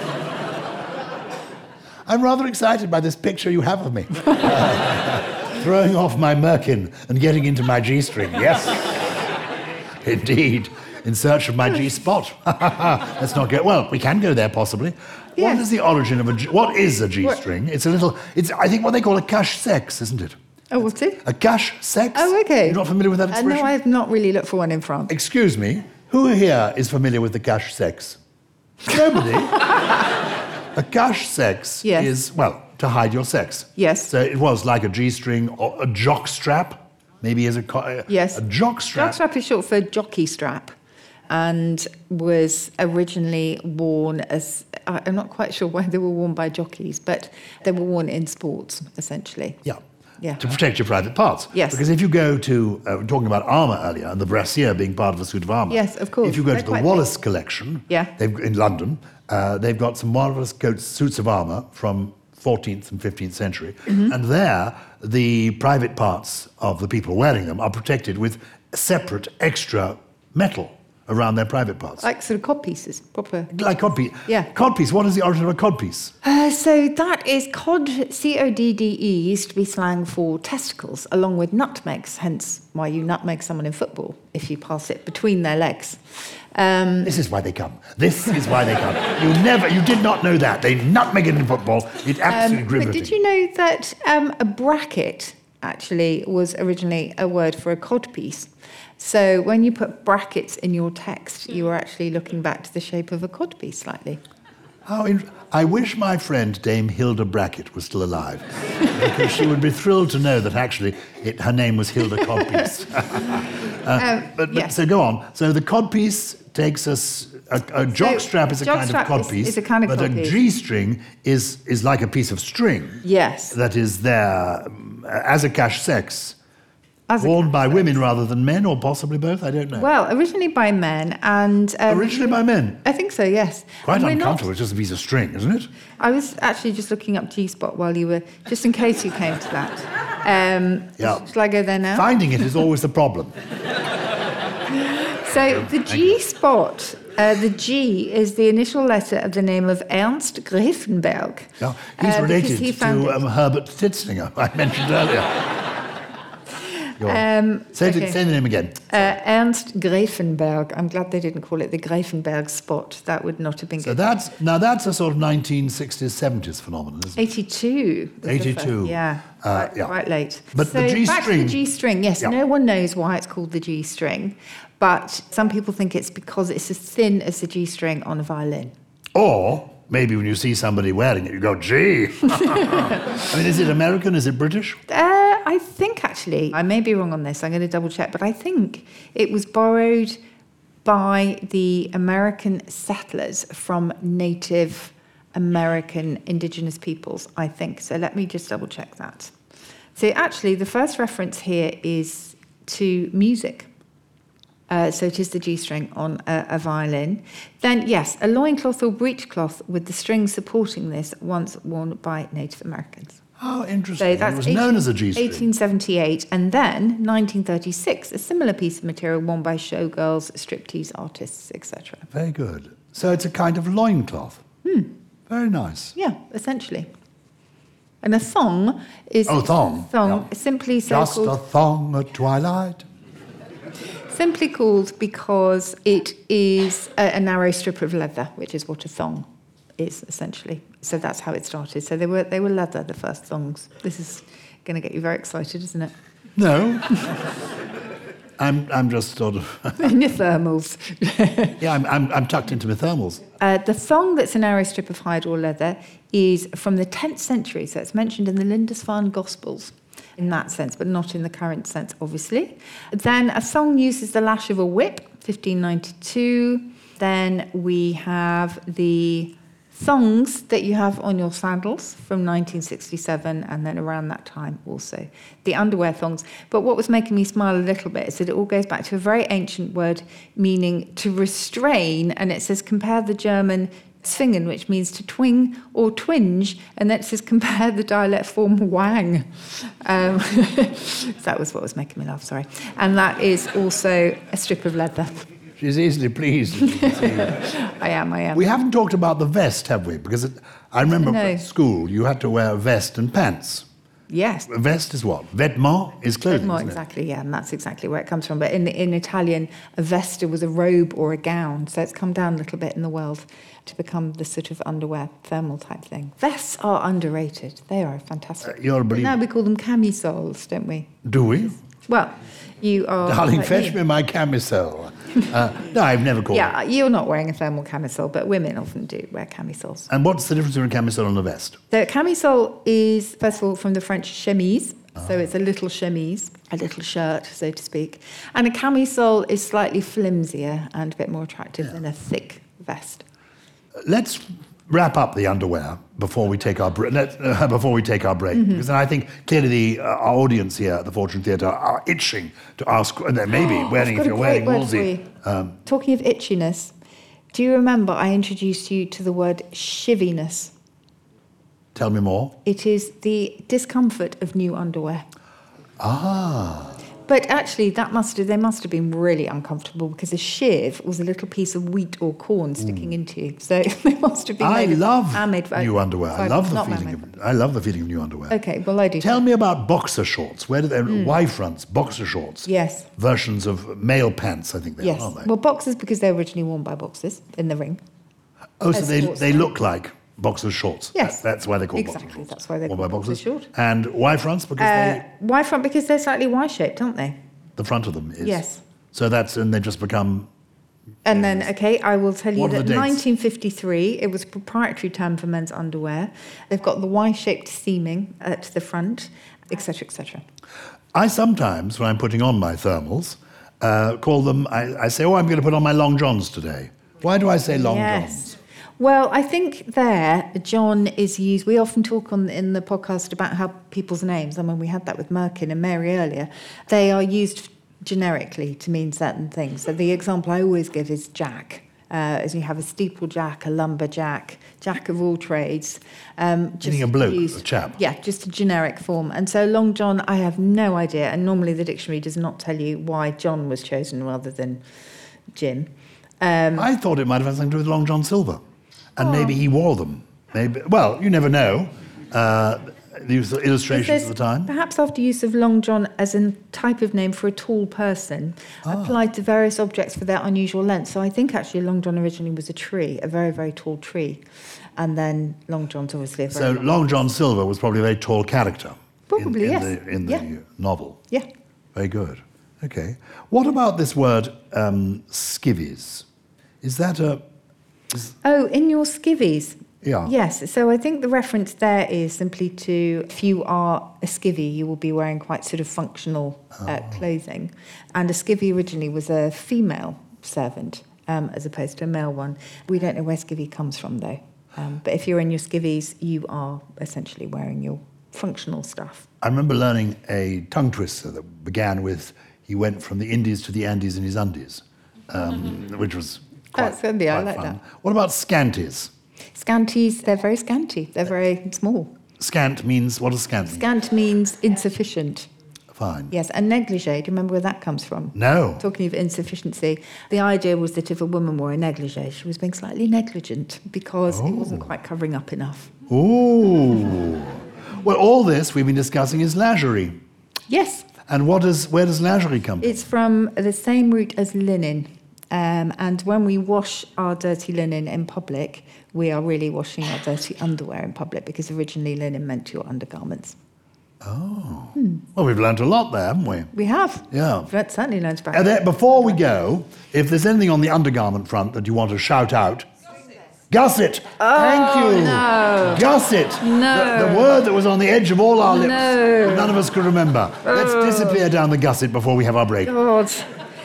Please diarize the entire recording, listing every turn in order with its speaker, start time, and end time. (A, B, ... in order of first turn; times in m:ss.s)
0:02.0-0:09.2 A
0:10.0-0:20.4 A
0:15.4-0:15.6 B
0:20.7-0:21.2 B
0:21.2-0:23.7 A
0:22.1-0:25.1 B
0:25.1-0:28.2 A
0:28.8-0:30.0 A
0:30.7-0:39.2 A
0:31.8-0:32.1 B
0:33.8-0:34.1 B
0:38.1-0:38.4 B
0:38.9-0:40.7 B
0:41.3-0:49.6 B
0:50.4-1:12.1 A
0:51.5-0:51.8 B
0:55.7-0:57.0 B
1:12.0-1:13.5 B
1:13.5-1:16.1 A
1:16.2-1:27.1 B
1:27.0-1:33.1 A
1:32.3-1:44.2 B
1:44.8-2:06.4 A
1:53.9-1:54.7 B
1:57.9-2:00.4 B
2:03.0-2:03.6 B
2:07.1-2:08.0 B
2:07.2-2:09.9 A
2:09.7-2:12.3 B
2:11.9-2:12.8 A
2:12.8-2:14.5 B
2:13.8-2:15.7 A
2:16.0-2:22.1 B
2:21.0-2:21.2 A
2:21.9-2:23.3 A
2:24.7-2:33.2 B
2:25.5-2:26.0 A
2:31.6-2:35.4 A
2:37.0-2:38.2 B
2:37.0-2:39.1 A
2:38.9-2:44.0 B
2:43.8-2:47.2 A
2:47.2-2:58.7 B
2:48.2-2:49.9 A
2:50.5-2:51.6 A
2:59.1-3:04.8 A
3:04.9-3:10.2 B
3:10.8-3:19.3 B
3:19.9-3:23.7 B
3:24.7-3:33.2 B
3:33.4-3:35.4 A
3:34.0-3:42.1 B
3:42.1-3:44.4 A
3:44.6-3:44.9 B
3:45.3-3:45.9 A
3:45.9-3:46.9 B
3:48.0-3:51.4 B
3:49.3-3:50.2 A
3:50.8-3:52.8 A
3:54.1-3:59.2 B
3:59.8-4:05.9 B
4:06.4-4:07.2 A
4:08.4-4:09.9 A
4:09.8-4:11.6 B
4:11.6-4:13.2 A
4:13.4-4:55.2 B
4:55.6-4:57.4 A
4:56.6-4:58.4 B
4:58.3-5:03.6 A
5:00.9-5:01.4 B
5:04.1-5:04.5 B
5:04.5-5:06.8 A
5:06.3-5:20.9 B
5:18.4-5:19.2 A
5:21.0-5:21.6 A
5:21.9-5:23.8 B
5:23.0-5:26.5 A
5:26.3-5:29.9 B
5:29.9-5:31.6 A
5:31.7-5:43.0 B
5:43.8-5:55.6 A
5:48.3-5:48.6 B
5:53.3-5:55.1 B
5:55.6-5:56.7 B
5:57.3-6:00.5 B
6:01.7-6:02.4 A
6:02.4-6:05.0 B
6:05.8-6:06.8 A
6:07.0-6:17.0 B
6:12.6-6:12.9 A
6:14.4-6:18.4 A
6:18.3-6:19.1 B
6:19.0-6:25.3 A
6:20.9-6:21.2 B
6:22.4-6:22.9 B
6:24.8-6:27.8 B
6:28.6-6:35.0 A
6:28.7-6:29.5 B
6:30.9-6:31.2 B
6:31.7-6:33.5 B
6:34.6-6:37.2 B
6:37.6-6:40.3 A
6:38.2-6:38.6 B
6:41.0-6:50.2 B
6:41.1-6:41.5 A
6:42.4-6:43.0 A
6:50.9-6:58.3 A
6:57.5-7:24.6 B
7:16.6-7:17.8 A
7:25.3-7:26.7 B
7:26.5-7:28.4 A
7:29.0-7:34.5 A
7:29.0-7:29.4 B
7:33.7-7:44.2 B
7:38.6-7:39.0 A
7:44.8-7:47.0 B
7:46.3-7:51.0 A
7:49.1-7:50.2 B
7:51.7-7:56.0 A
7:56.6-7:57.2 A
7:58.2-8:19.1 B
7:59.8-8:00.1 A
8:06.6-8:07.0 A
8:19.2-8:28.9 A
8:26.6-8:27.6 B
8:29.3-8:31.9 B
8:32.2-8:33.6 A
8:33.4-8:35.3 B
8:35.7-8:36.1 A
8:36.1-8:45.7 B
8:38.1-8:38.6 A
8:44.1-8:44.7 A
8:45.9-8:50.0 A
8:50.5-8:50.9 B
8:51.0-8:52.8 A
8:52.6-9:03.4 B
9:04.0-9:06.5 A
9:04.8-9:05.0 B
9:06.5-9:09.2 B
9:07.1-9:07.5 A
9:08.3-9:12.7 A
9:13.5-9:22.7 A
9:14.2-9:15.8 B
9:16.4-9:17.4 B
9:18.4-9:19.6 B
9:20.4-9:21.2 B
9:22.6-9:23.3 B